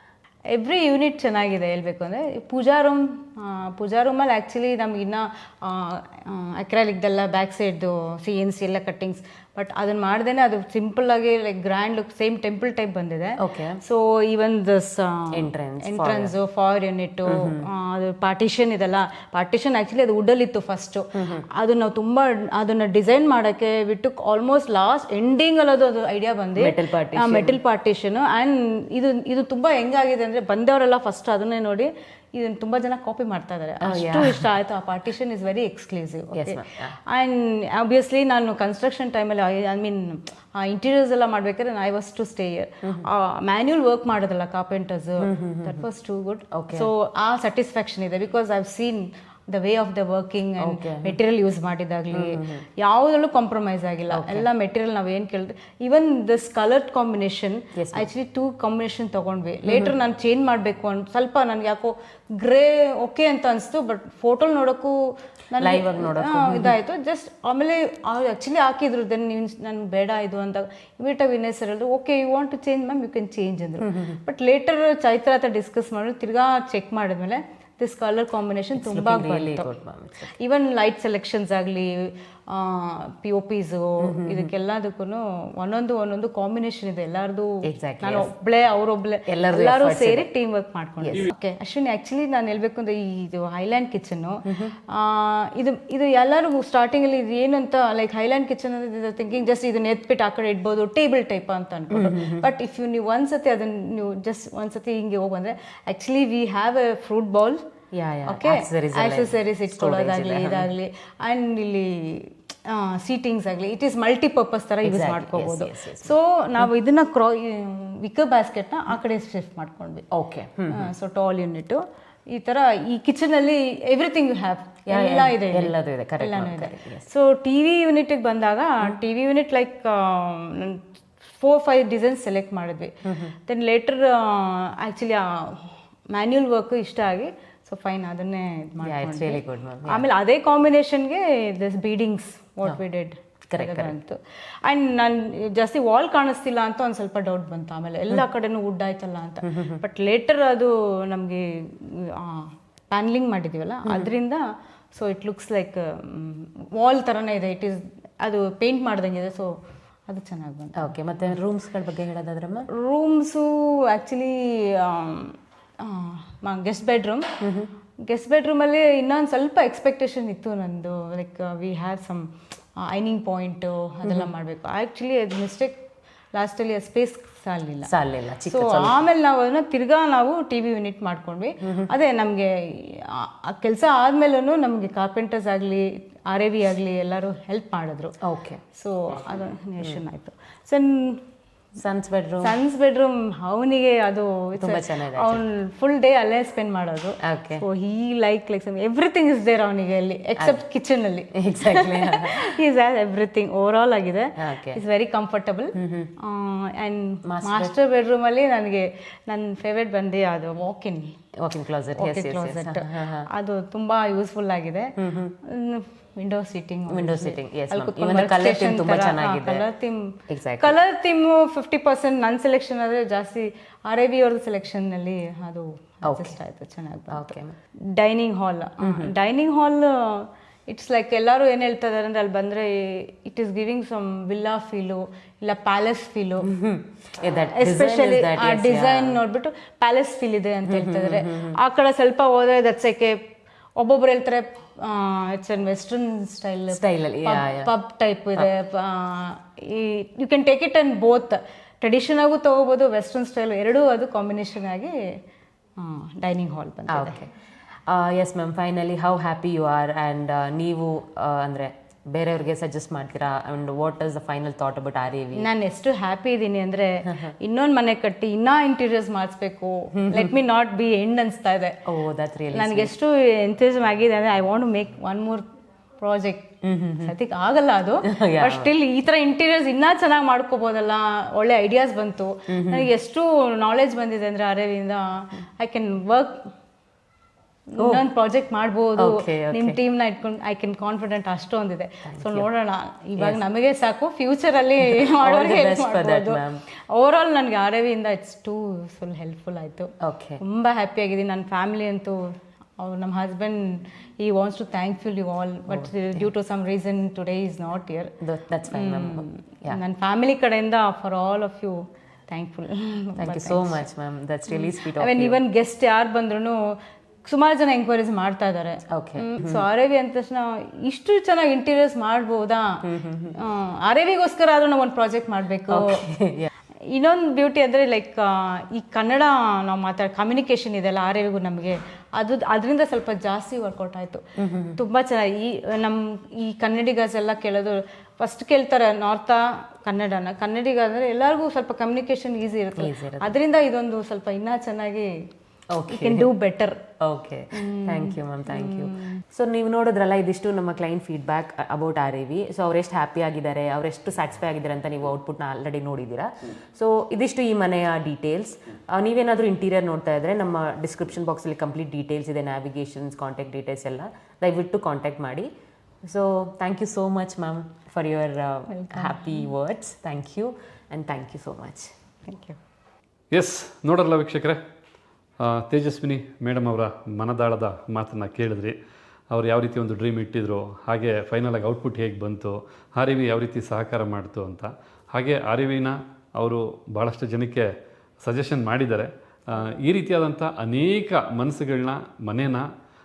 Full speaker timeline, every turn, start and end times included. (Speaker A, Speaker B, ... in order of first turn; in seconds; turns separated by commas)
Speaker A: 0.5-65.0, Speaker B: 13.4-13.8, Speaker B: 15.3-16.3, Speaker B: 17.2-17.6, Speaker B: 21.1-21.4, Speaker B: 26.6-27.6, Speaker B: 33.8-34.4, Speaker B: 36.3-36.9, Speaker B: 45.2-45.8, Speaker B: 46.5-46.9, Speaker B: 50.6-51.1, Speaker B: 52.1-52.6, Speaker B: 54.1-54.5, Speaker B: 57.7-58.0, Speaker B: 59.7-59.9, Speaker A: 65.5-79.7, Speaker B: 65.6-66.7, Speaker B: 73.8-74.2, Speaker B: 78.8-80.3, Speaker A: 80.3-107.6, Speaker B: 84.0-84.5, Speaker B: 87.6-88.3, Speaker B: 89.3-90.3, Speaker B: 91.0-91.3, Speaker B: 94.5-94.7, Speaker B: 101.9-102.5, Speaker B: 107.9-110.7, Speaker A: 108.2-120.0, Speaker B: 114.8-116.7, Speaker B: 120.1-120.9, Speaker A: 120.7-159.5, Speaker B: 124.9-127.0, Speaker B: 133.0-133.3, Speaker B: 138.8-140.1, Speaker B: 143.5-143.9, Speaker B: 149.4-149.8, Speaker B: 153.8-154.1, Speaker A: 160.1-160.9, Speaker B: 160.8-162.7, Speaker A: 162.7-167.3, Speaker B: 167.4-167.7, Speaker A: 168.0-175.8, Speaker A: 176.3-177.9, Speaker B: 177.8-179.0, Speaker A: 178.5-188.1, Speaker B: 181.6-181.9, Speaker B: 188.2-188.6, Speaker A: 188.7-191.2, Speaker B: 191.8-192.6, Speaker A: 192.4-211.1, Speaker B: 194.6-195.4, Speaker B: 197.2-197.6, Speaker B: 201.3-202.5, Speaker B: 204.4-204.8, Speaker B: 205.8-206.1, Speaker B: 207.2-207.7, Speaker B: 211.4-213.3, Speaker A: 211.9-227.3, Speaker B: 215.0-215.3, Speaker B: 216.9-219.6, Speaker B: 220.3-220.8, Speaker B: 226.1-226.3, Speaker B: 227.1-227.5, Speaker A: 227.9-236.5, Speaker B: 228.8-229.1, Speaker B: 236.4-239.2, Speaker A: 237.5-243.2, Speaker B: 240.6-241.6, Speaker A: 243.8-254.9, Speaker B: 246.7-247.7, Speaker A: 255.8-257.1, Speaker B: 256.9-257.3, Speaker B: 257.9-265.5, Speaker A: 265.4-271.8, Speaker B: 267.1-267.3, Speaker B: 269.9-270.3, Speaker B: 271.9-272.9, Speaker A: 272.5-275.4, Speaker A: 276.0-286.5, Speaker B: 276.6-277.1, Speaker B: 278.0-278.7, Speaker B: 282.5-282.9, Speaker A: 287.7-308.1, Speaker B: 287.8-288.1, Speaker B: 289.0-289.8, Speaker B: 292.1-292.5, Speaker B: 294.8-296.6, Speaker B: 300.0-300.4, Speaker B: 308.2-309.8, Speaker A: 308.7-313.8, Speaker B: 313.2-315.4, Speaker A: 314.5-322.8, Speaker B: 318.9-319.6, Speaker B: 322.8-323.4, Speaker A: 323.3-326.1, Speaker B: 325.7-326.5, Speaker A: 326.9-334.2, Speaker B: 334.4-334.8, Speaker A: 334.8-345.1, Speaker B: 342.8-343.4, Speaker B: 345.7-346.3, Speaker A: 345.9-346.8, Speaker B: 347.0-365.5, Speaker A: 347.5-349.2, Speaker B: 366.1-371.9, Speaker A: 368.7-369.5, Speaker A: 372.3-372.6, Speaker C: 373.3-374.6, Speaker C: 375.4-378.7, Speaker C: 379.3-387.7, Speaker C: 388.2-392.6